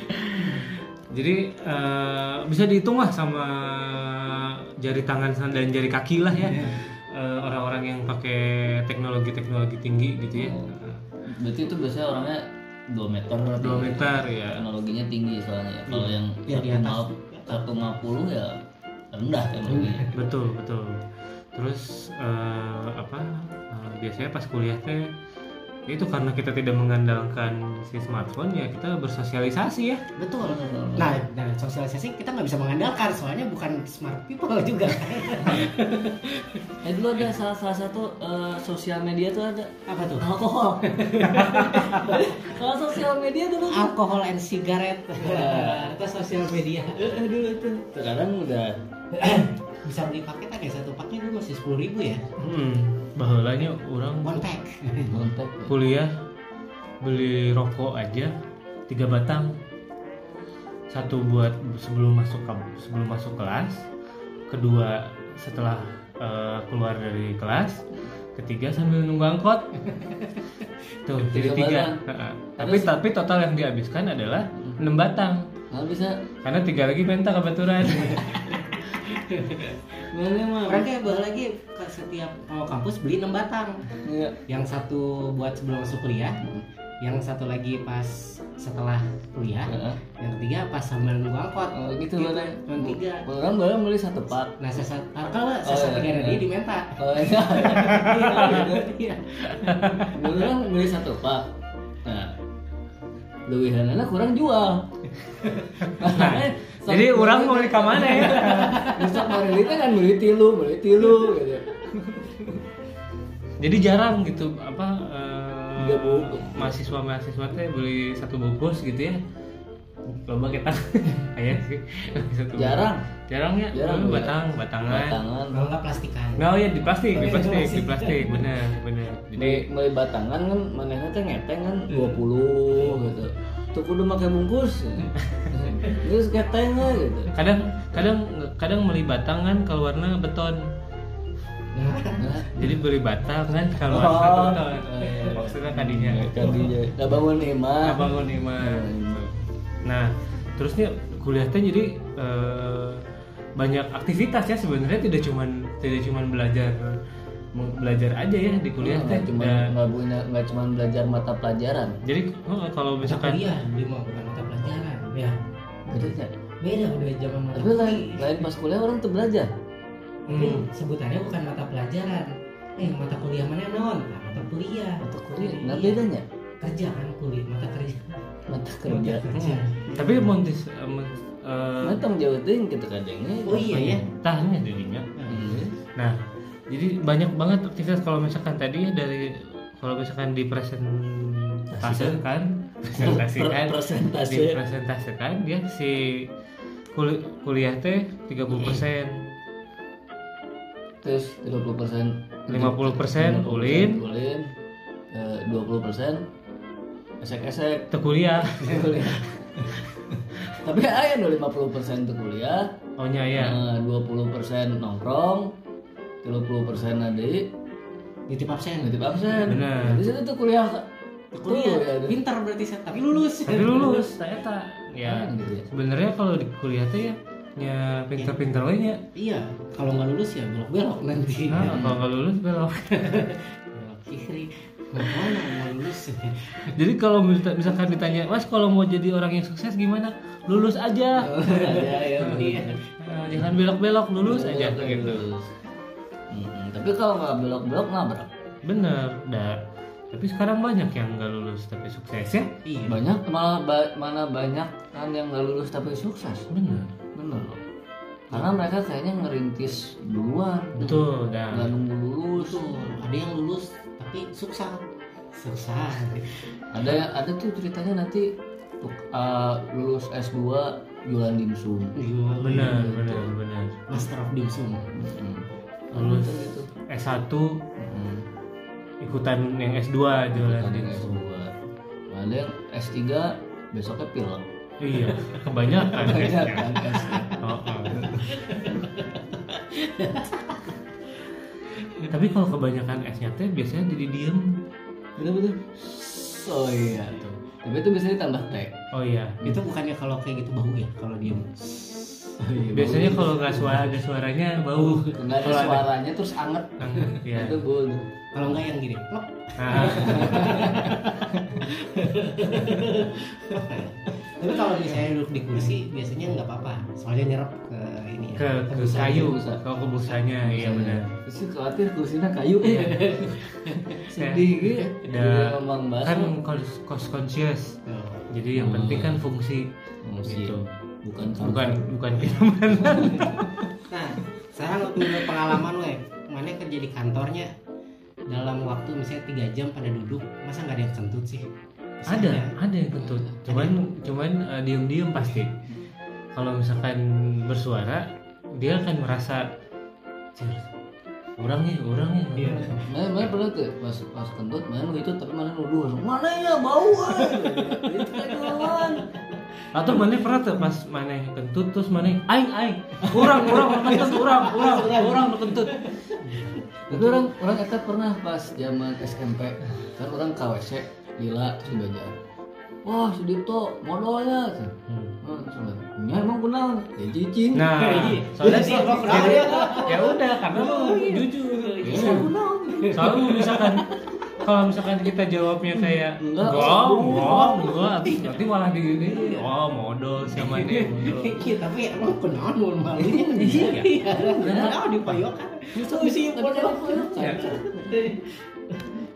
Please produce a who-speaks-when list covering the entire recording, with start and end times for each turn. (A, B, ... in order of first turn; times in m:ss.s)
0:01.1-0:11.0 A
0:10.4-0:10.7 B
0:11.3-0:18.6 B
0:13.6-0:14.6 A
0:15.9-0:17.8 C
0:19.1-0:20.1 B
0:19.7-0:20.2 C
0:20.1-0:21.0 A
0:21.6-0:25.1 A
0:25.9-0:30.0 A
0:30.2-0:36.8 C
0:30.4-0:31.2 B
0:35.4-0:35.7 B
0:36.8-0:40.9 B
0:39.9-0:42.6 C
0:41.7-0:43.9 B
0:43.7-0:47.0 C
0:45.2-0:45.9 B
0:47.0-0:48.8 B
0:49.1-0:52.2 C
0:52.4-0:54.5 A
0:54.2-0:55.2 C
0:55.1-0:55.8 B
0:55.7-0:56.1 A
0:57.0-0:58.3 A
0:58.9-0:59.5 A
1:00.9-1:03.8 A
1:04.5-1:07.8 A
1:08.4-1:09.9 A
1:11.0-1:15.5 A
1:11.2-1:12.0 B
1:12.6-1:13.0 B
1:15.7-1:16.2 B
1:16.4-1:18.6 A
1:19.0-1:19.7 C
1:20.1-1:20.9 B
1:20.7-1:23.8 C
1:24.0-1:24.4 B
1:24.5-1:26.4 C
1:27.0-1:33.3 C
1:29.7-1:30.0 B
1:31.7-1:34.6 B
1:34.6-1:40.1 C
1:35.6-1:38.9 B
1:39.6-1:40.1 A
1:40.1-1:41.5 B
1:42.0-1:42.3 B
1:43.5-1:45.1 B
1:45.8-1:49.0 A
1:45.8-1:52.6 B
1:48.2-1:49.4 C
1:53.6-1:59.2 A
1:55.8-1:56.8 B
2:00.1-2:05.2 A
2:02.6-2:03.0 B
2:03.7-2:05.6 B
2:05.5-2:06.4 C
2:06.4-2:09.6 A
2:07.1-2:08.4 C
2:09.3-2:17.3 B
2:11.9-2:12.2 A
2:17.3-2:20.6 A
2:21.8-2:22.3 C
2:22.2-2:22.6 B
2:22.5-2:26.4 A
2:23.9-2:29.3 B
2:26.4-2:26.7 C
2:27.8-2:29.3 A
2:29.8-2:33.0 A
2:33.6-2:37.0 A
2:37.5-2:39.7 A
2:38.8-2:42.0 B
2:42.0-2:43.5 A
2:43.0-2:45.4 C
2:45.9-2:46.3 B
2:46.6-2:48.4 C
2:47.5-2:49.5 B
2:50.3-2:56.0 C
2:50.3-2:50.7 A
2:55.0-2:56.3 B
2:56.6-2:58.2 C
2:58.5-2:59.3 B
2:58.9-3:00.3 C
2:59.3-3:02.0 A
3:01.8-3:04.1 B
3:03.4-3:04.0 C
3:04.0-3:05.1 A
3:05.2-3:05.4 C
3:05.3-3:05.8 B
3:06.7-3:16.3 A
3:11.7-3:12.2 B
3:12.9-3:14.6 B
3:16.9-3:19.3 A
3:21.0-3:24.5 B
3:22.5-3:24.0 A
3:25.1-3:26.3 B
3:27.2-3:27.9 B
3:27.9-3:29.2 A
3:28.6-3:29.7 B
3:30.5-3:32.8 B
3:33.0-3:33.6 A
3:33.3-3:35.6 B
3:36.2-3:37.5 B
3:38.3-3:39.2 C
3:38.8-3:40.9 B
3:39.4-3:40.0 A
3:41.3-3:44.0 C
3:41.4-3:42.2 B
3:43.4-3:49.0 A
3:45.0-3:45.7 B
3:49.1-3:51.8 C
3:51.5-3:53.2 A
3:51.7-3:52.0 B
3:52.9-3:56.8 C
3:56.7-4:05.2 A
4:01.2-4:02.8 B
4:04.2-4:05.5 B
4:06.3-4:08.3 B
4:08.6-4:12.5 A
4:12.6-4:13.0 C
4:12.9-4:16.5 B
4:16.5-4:16.9 A
4:17.2-4:17.6 B
4:18.3-4:22.9 B
4:20.8-4:21.7 A
4:22.3-4:24.8 C
4:25.3-4:26.6 C
4:26.7-4:33.3 B
4:32.0-4:32.8 C
4:32.4-4:33.9 A
4:33.9-4:34.9 C
4:34.9-4:36.7 B
4:35.9-4:37.6 A
4:37.8-4:38.3 B
4:39.0-4:41.2 A
4:40.3-4:41.6 B
4:42.1-4:44.5 B
4:44.8-4:48.1 A
4:45.8-4:47.3 B
4:47.9-4:48.3 B
4:48.2-4:50.8 C
4:52.1-4:54.6 A
4:55.2-4:58.8 B
4:58.9-4:59.5 A
4:59.4-5:02.4 C
5:02.4-5:03.9 B
5:02.7-5:05.9 A
5:04.9-5:08.1 B
5:06.8-5:07.6 A
5:08.3-5:19.4 C
5:09.6-5:10.9 A
5:09.9-5:10.8 B
5:18.4-5:21.1 A
5:18.9-5:19.6 B
5:20.4-5:23.4 B
5:22.6-5:23.4 A
5:22.9-5:24.0 C
5:24.1-5:26.3 B
5:24.1-5:29.7 A
5:27.9-5:28.3 C
5:28.6-5:29.3 B
5:30.0-5:31.9 B
5:30.3-5:30.7 A
5:31.4-5:33.5 A
5:32.7-5:33.4 B
5:33.9-5:37.5 C
5:38.3-5:41.4 C
5:42.0-5:42.5 C
5:42.1-5:45.6 A
5:43.5-5:43.8 C
5:46.3-5:49.5 A
5:50.4-5:50.7 A
5:51.4-5:52.8 A
5:52.4-5:52.8 C
5:52.9-5:59.1 B
5:57.4-5:58.9 C
5:59.7-6:05.8 A
6:03.0-6:05.1 B
6:03.9-6:07.2 C
6:06.9-6:12.2 B
6:12.8-6:17.8 B
6:14.9-6:15.2 A
6:17.5-6:22.3 A
6:17.8-6:20.8 C
6:18.4-6:21.2 B
6:21.6-6:22.2 C
6:21.8-6:23.2 B
6:22.7-6:23.9 C
6:22.9-6:31.4 A
6:26.2-6:27.7 B
6:29.0-6:29.4 C
6:30.4-6:38.9 C
6:33.0-6:34.7 B
6:33.4-6:35.2 A
6:35.8-6:37.9 B
6:37.2-6:37.4 A